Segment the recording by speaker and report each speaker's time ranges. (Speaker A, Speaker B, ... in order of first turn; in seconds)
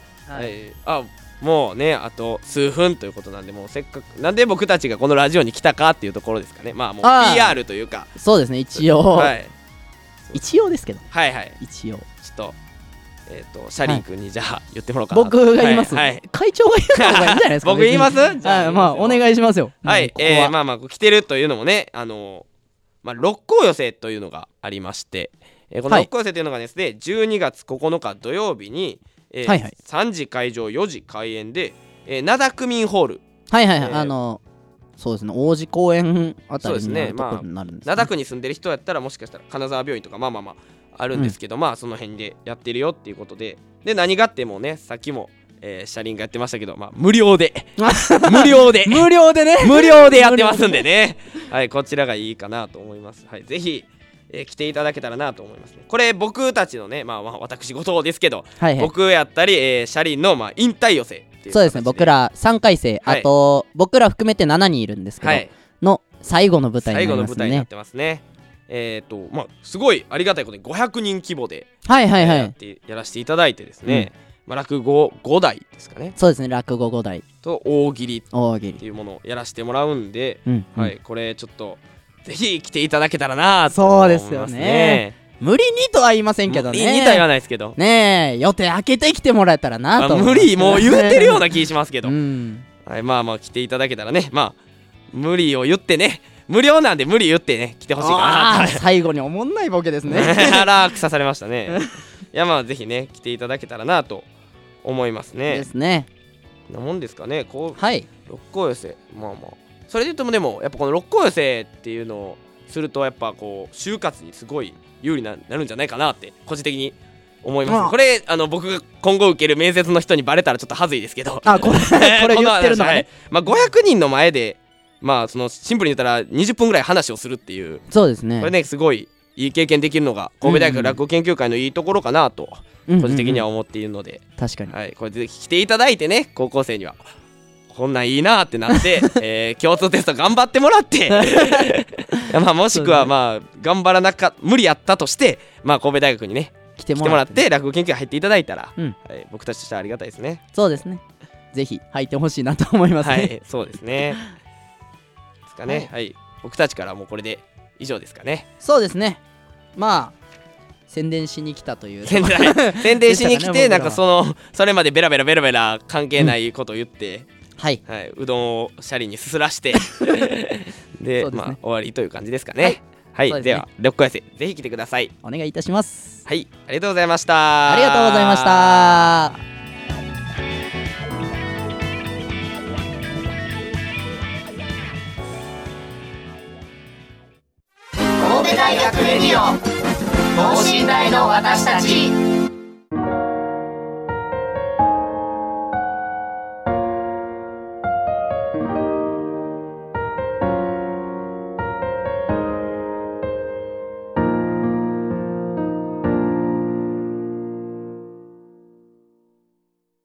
Speaker A: 0.3-0.5, 7.0-7.6, 8.2-9.4, 10.3-12.1, 15.1-20.5, 29.4-29.7, 33.5-34.4, 35.0-38.1, 47.8-50.9, 58.6-58.9, 61.5-67.7, 71.9-72.5, 76.2-77.2, 78.3-78.8, 80.5-80.9, 83.7-87.2, 87.8-91.5, 92.0-92.7, 98.0-100.7, 101.7-101.9, 105.5-106.1, 107.8-108.1, 117.7-118.0, 121.5-123.1, 127.9-128.5, 130.4-131.0, 132.9-133.4, 134.4-134.7, 141.1-143.1, 146.8-147.4, 150.5-151.0, 151.5-153.3, 158.6-159.2, 159.8-160.2, 160.9-164.0, 169.9-170.2, 171.2-171.6, 172.6-173.7, 175.2-176.2, 177.7-179.4
Speaker B: 0.3-8.1, 9.1-9.5, 11.1-11.6, 12.2-12.6, 13.3-16.2, 16.9-19.2, 19.9-22.5, 23.0-33.2, 33.8-34.1, 36.6-62.1, 65.2-65.5, 66.8-76.2, 77.4-78.3, 78.8-85.2, 86.5-87.8, 90.0-92.1, 92.8-94.6, 95.1-98.8, 100.1-104.3, 104.8-105.7, 106.7-127.8, 128.4-137.0, 137.7-150.4, 153.0-154.2, 155.5-158.5, 162.1-167.3, 167.9-175.1, 176.3-179.1
Speaker C: 188.2-189.6, 190.3-192.2